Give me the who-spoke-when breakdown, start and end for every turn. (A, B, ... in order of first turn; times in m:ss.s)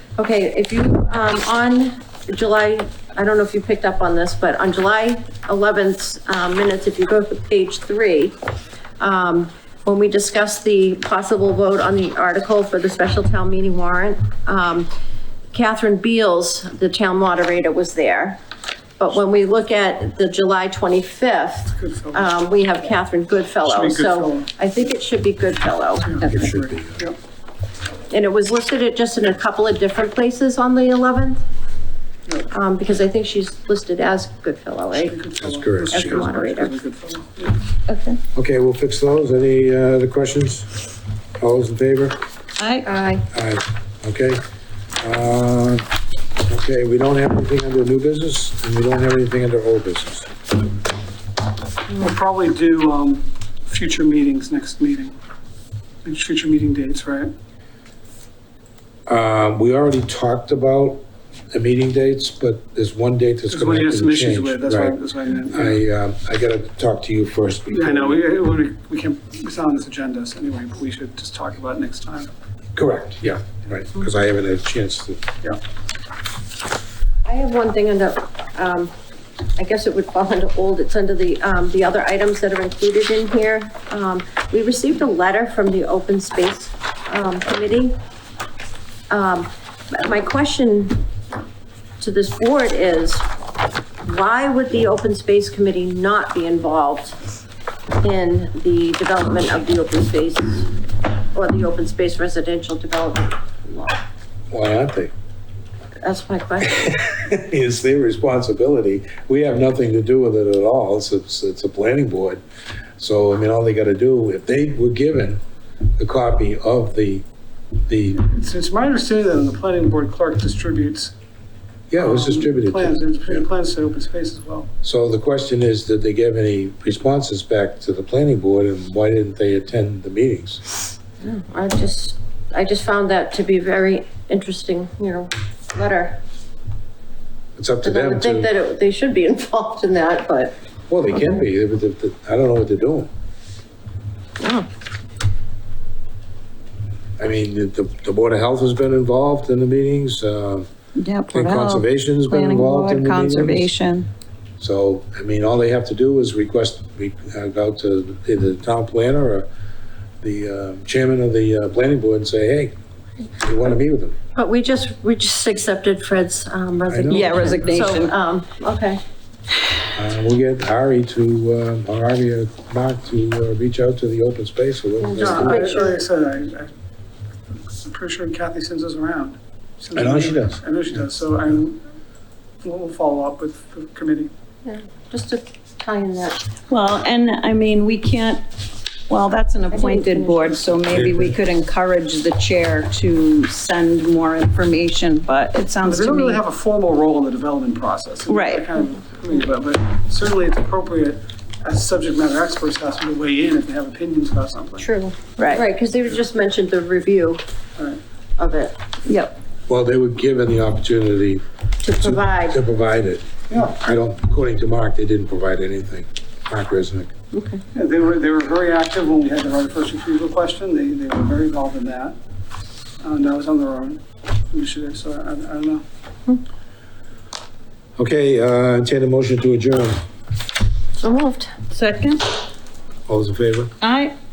0:00.2-0:08.4 A
0:09.0-0:14.9 A
0:15.5-0:18.4 A
0:19.0-0:26.5 A
0:21.7-0:22.3 B
0:23.6-0:24.5 B
0:26.0-0:27.2 B
0:26.3-0:27.1 C
0:28.1-0:31.4 A
0:32.5-0:35.2 A
0:35.0-0:37.7 B
0:35.4-0:36.3 C
0:35.9-0:36.7 A
0:37.9-0:38.2 D
0:38.3-0:40.8 C
0:41.4-0:42.2 C
0:42.6-0:42.9 D
0:42.8-0:43.2 A
0:43.3-0:44.4 C
0:45.0-0:45.8 C
0:46.4-0:50.3 C
0:51.9-0:55.2 B
0:56.0-0:57.3 B
0:59.1-1:05.0 C
1:03.5-1:05.8 B
1:05.5-1:08.2 C
1:07.7-1:12.3 B
1:12.7-1:15.2 C
1:17.2-1:18.9 A
1:19.6-1:28.0 A
1:29.1-1:31.0 A
1:32.0-1:33.3 A
1:34.0-1:37.2 A
1:38.0-1:40.7 A
1:41.3-1:44.0 A
1:44.5-1:45.1 C
1:46.0-1:46.9 A
1:46.7-1:52.4 C
1:53.0-1:55.4 C
1:56.0-1:57.2 C
1:57.8-1:58.2 C
1:58.2-2:01.1 B
2:01.9-2:03.4 C
2:01.9-2:04.7 B
2:04.8-2:10.6 C
2:11.2-2:16.2 A
2:17.6-2:18.5 C
2:17.8-2:20.6 A
2:20.9-2:23.1 C
2:24.4-2:24.6 A
2:27.2-2:30.7 C
2:31.0-2:34.1 D
2:31.3-2:33.7 C
2:34.6-2:39.5 C
2:40.2-2:42.7 C
2:43.4-2:44.2 C
2:44.3-2:49.0 A
2:46.9-2:47.9 C
2:47.1-2:48.1 D
2:49.9-2:55.8 C
2:55.0-2:56.0 A
2:55.2-2:56.7 B
2:57.5-3:01.9 B
2:59.9-3:00.6 C
3:02.6-3:04.3 B
3:04.6-3:06.4 A
3:06.7-3:08.4 D
3:09.1-3:16.4 D
3:09.7-3:10.7 A
3:10.9-3:11.3 C
3:15.8-3:24.9 B
3:18.3-3:18.7 D
3:24.8-3:27.4 A
3:25.4-3:25.6 D
3:27.8-3:28.0 B
3:28.4-3:28.8 A
3:29.1-3:29.3 D
3:29.7-3:37.1 C
3:31.8-3:32.6 A
3:33.5-3:33.8 B
3:37.3-3:37.6 A
3:37.7-3:42.2 B
3:43.0-3:45.8 B
3:48.0-3:50.0 C
3:51.0-3:51.6 A
3:51.7-3:52.2 D
3:53.1-3:53.8 C
3:53.8-3:54.1 D